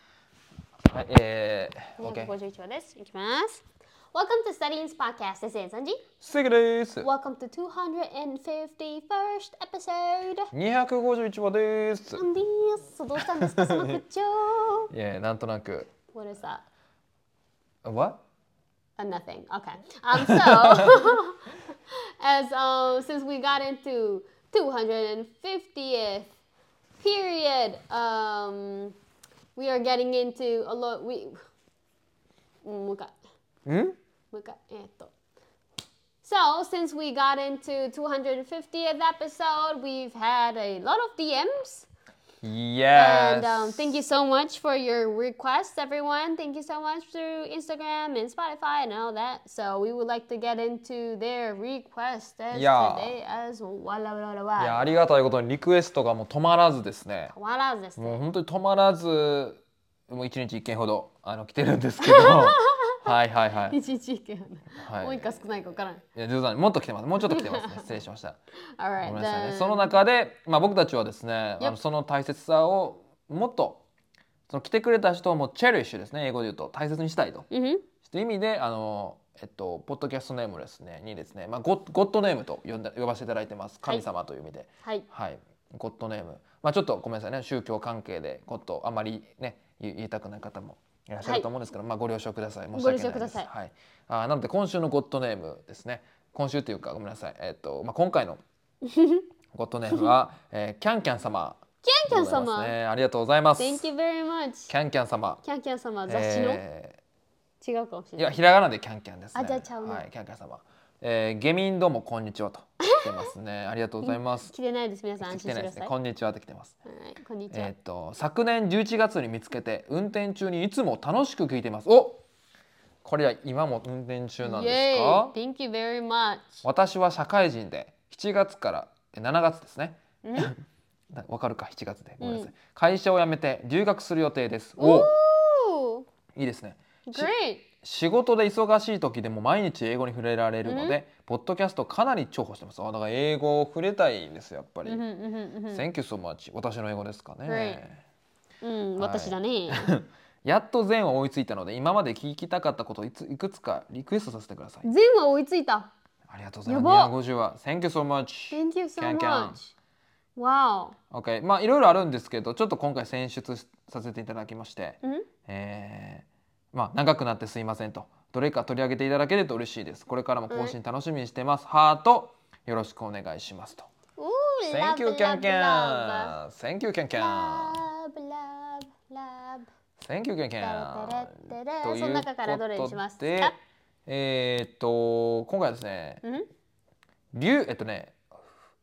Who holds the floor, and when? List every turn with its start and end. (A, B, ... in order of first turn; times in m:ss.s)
0:00.9-0:02.4 A
0:02.0-0:06.0 B
0:06.2-0:07.1 A
0:07.0-0:10.5 B
0:10.5-0:12.2 A
0:12.2-0:14.9 B
0:13.2-0:13.8 A
0:14.9-0:15.9 A
0:16.1-0:16.6 B
0:17.8-0:18.2 A
0:19.0-0:26.3 B
0:20.2-0:21.0 A
0:27.0-0:29.0 B
0:29.6-0:31.4 B
0:32.6-0:33.2 B
0:33.7-0:34.0 A
0:34.3-0:35.1 B
0:36.2-0:41.9 B
0:42.4-0:44.0 A
0:42.9-0:54.9 B
0:52.5-0:53.1 A
0:54.6-0:57.3 A
0:57.3-0:58.2 B
0:58.0-1:03.8 A
1:02.0-1:03.0 B
1:03.7-1:06.0 B
1:04.8-1:05.5 A
1:06.1-1:08.4 A
1:07.2-1:07.9 B
1:08.8-1:10.0 B
1:09.0-1:13.8 A
1:14.5-1:17.5 A
1:17.5-1:17.9 B
1:18.0-1:38.4 A
1:31.2-1:31.5 B
1:32.7-1:33.5 B
1:38.8-1:39.2 B
1:39.5-1:43.9 A
1:41.8-1:42.8 B
1:43.6-1:44.7 B
1:44.7-1:45.4 A
1:45.4-1:46.6 B
1:46.1-1:47.0 A
1:47.6-1:48.3 B
1:48.2-1:54.5 A
1:49.3-1:50.0 B
1:52.8-1:53.3 B
1:54.0-1:55.9 B
1:55.2-1:56.8 A
1:56.9-1:57.7 B
1:57.5-2:02.2 A
2:03.0-2:05.4 A
2:04.4-2:06.6 B
2:06.6-2:10.6 A
2:10.2-2:10.5 B
2:11.1-2:15.1 A
2:12.2-2:12.5 B
2:14.8-2:16.1 B
2:16.4-2:25.0 A
2:17.1-2:17.7 B
2:20.6-2:21.0 B
2:24.8-2:25.8 B
2:25.7-2:28.0 A
2:27.5-2:27.8 B
2:28.6-2:29.9 B
2:29.0-2:34.9 A
2:34.8-2:35.9 B
2:36.3-2:39.6 A
2:36.7-2:37.1 B
2:38.5-2:39.7 B
2:40.4-2:41.0 B
2:41.1-2:53.9 A
2:45.0-2:45.3 B
2:50.5-2:50.8 B
2:54.2-2:56.4 B
2:54.7-2:57.8 A
2:57.2-2:59.7 B
3:00.0-3:03.5 A
3:00.6-3:03.6 B
3:04.1-3:06.2 A
3:07.3-3:08.2 A